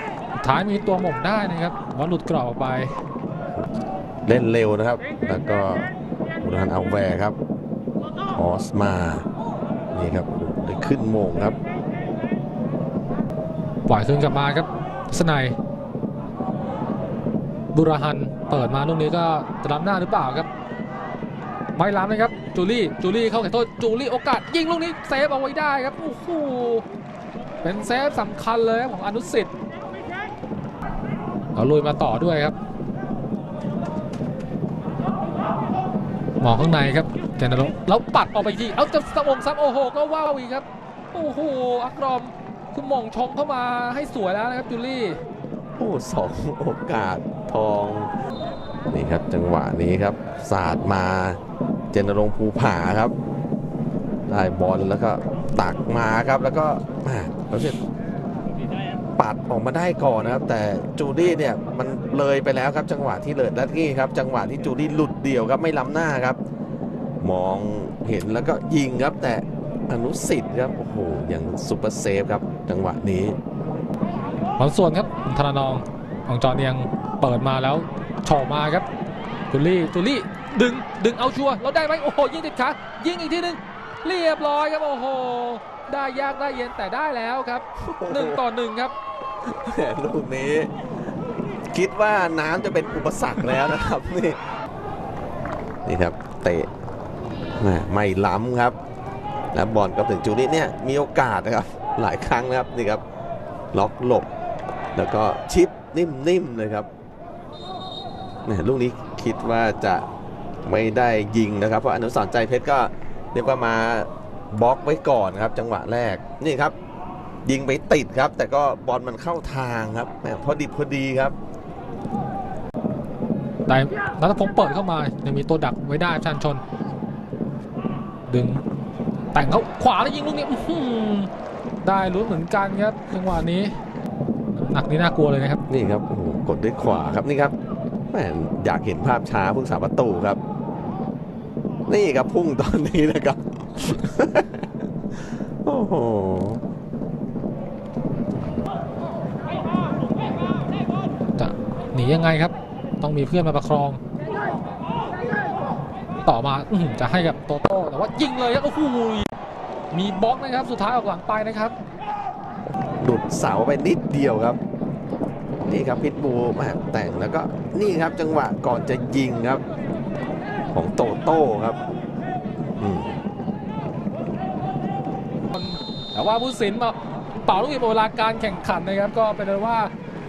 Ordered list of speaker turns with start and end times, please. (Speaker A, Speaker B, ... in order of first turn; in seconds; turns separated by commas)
Speaker A: 0.3-2.9, Speaker B: 4.2-5.9, Speaker B: 6.4-7.3, Speaker B: 8.3-9.2, Speaker B: 9.9-11.6, Speaker A: 13.9-15.6, Speaker A: 17.7-20.5, Speaker A: 21.8-26.8, Speaker A: 27.6-29.5, Speaker A: 31.5-32.5, Speaker A: 36.4-45.2, Speaker B: 45.8-48.1, Speaker B: 48.9-51.4, Speaker B: 51.9-53.1, Speaker B: 54.3-57.8, Speaker B: 59.2-66.4, Speaker B: 67.2-73.4, Speaker A: 74.6-78.9, Speaker A: 79.5-88.9, Speaker B: 87.8-88.4, Speaker B: 89.4-90.7, Speaker B: 91.7-94.4, Speaker B: 95.9-96.7, Speaker B: 97.6-98.8, Speaker B: 99.5-103.0, Speaker B: 103.7-104.3, Speaker B: 104.9-106.9, Speaker B: 108.5-110.1, Speaker B: 110.6-116.8, Speaker B: 117.4-121.3, Speaker A: 123.7-126.6, Speaker A: 128.3-128.6, Speaker A: 129.3-131.3, Speaker A: 131.8-133.7, Speaker A: 134.5-135.6, Speaker B: 135.7-137.6, Speaker B: 138.1-140.4, Speaker B: 141.9-144.7, Speaker B: 145.6-146.6, Speaker A: 151.4-154.0, Speaker A: 156.2-159.3, Speaker A: 159.9-161.8, Speaker B: 163.0-164.6, Speaker B: 165.7-169.6, Speaker B: 170.7-171.8, Speaker B: 172.8-173.1, Speaker A: 175.5-179.9